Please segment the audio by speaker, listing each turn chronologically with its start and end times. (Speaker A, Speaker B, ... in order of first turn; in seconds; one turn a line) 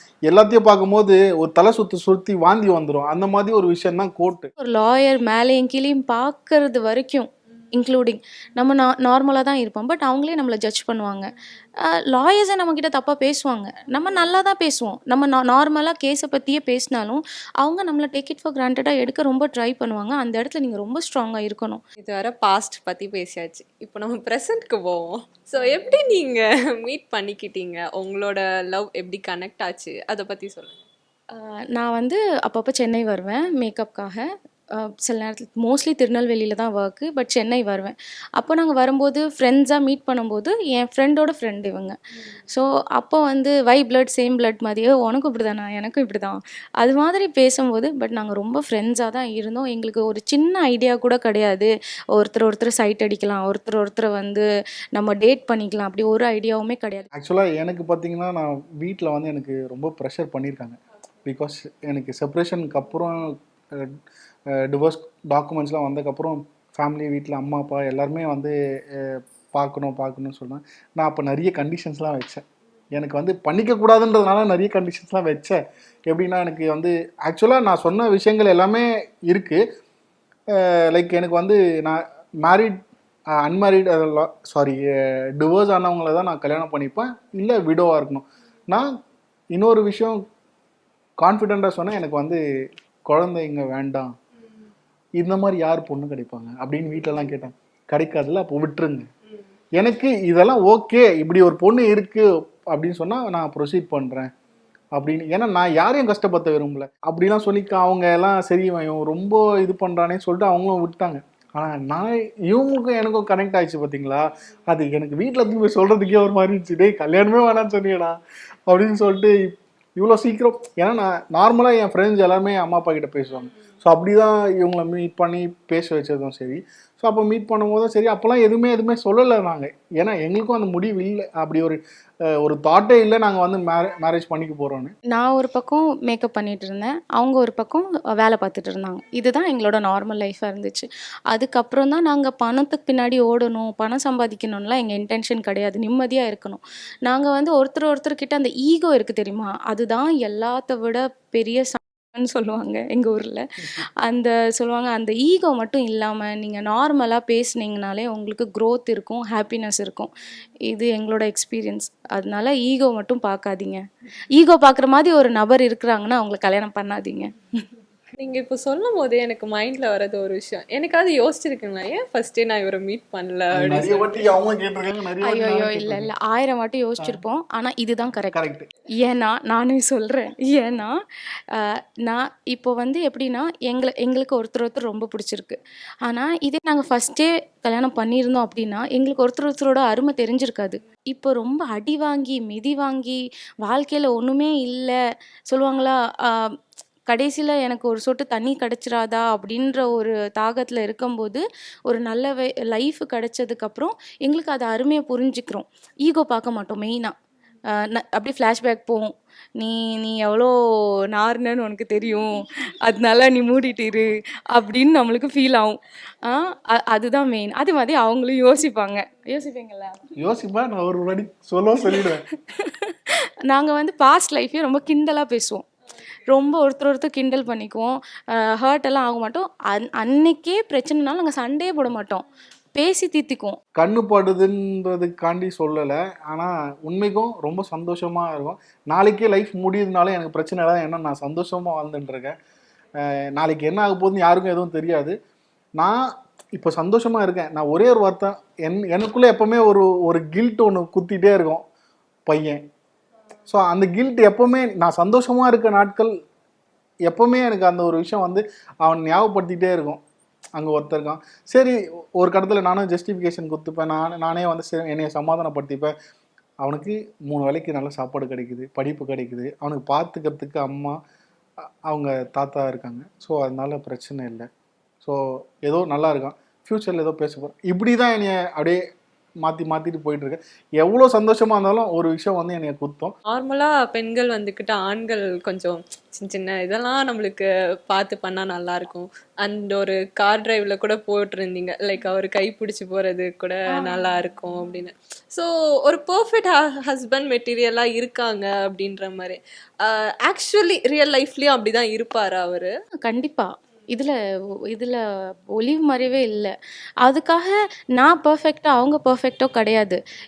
Speaker A: 0.3-4.5
Speaker B: 4.6-11.3
Speaker B: 11.9-21.8
Speaker C: 22.0-30.9
Speaker B: 31.3-34.2
Speaker B: 34.8-42.0
Speaker B: 42.5-54.4
Speaker B: 55.0-57.1
Speaker A: 57.1-64.0
Speaker A: 64.5-72.4
Speaker A: 72.9-79.6
Speaker A: 80.5-82.8
Speaker A: 83.4-88.9
Speaker A: 89.5-90.2
Speaker A: 91.2-92.4
Speaker A: 93.1-94.1
Speaker A: 95.2-99.1
Speaker A: 99.8-104.3
Speaker A: 104.9-134.9
Speaker B: 135.1-160.1
Speaker B: 160.7-163.8
Speaker B: 164.3-167.3
Speaker C: 168.2-174.3
Speaker A: 173.5-176.1
Speaker B: 175.2-178.4
Speaker A: 178.3-178.7
Speaker B: 179.0-181.0
Speaker B: 181.5-195.0
Speaker B: 195.5-196.5
Speaker B: 197.1-207.1
Speaker B: 207.8-210.5
Speaker B: 211.1-220.0
Speaker A: 220.2-222.2
Speaker B: 221.9-225.7
Speaker B: 226.3-233.6
Speaker A: 233.8-242.3
Speaker A: 243.0-245.2
Speaker A: 245.8-251.6
Speaker A: 252.3-252.6
Speaker A: 253.5-256.1
Speaker A: 257.1-260.0
Speaker A: 260.6-265.9
Speaker A: 266.6-271.0
Speaker A: 271.9-274.5
Speaker A: 275.0-278.8
Speaker A: 279.4-283.1
Speaker C: 283.3-302.7
Speaker B: 293.7-294.5
Speaker B: 303.0-304.1
Speaker B: 304.7-305.0
Speaker B: 305.5-306.5
Speaker B: 307.0-310.0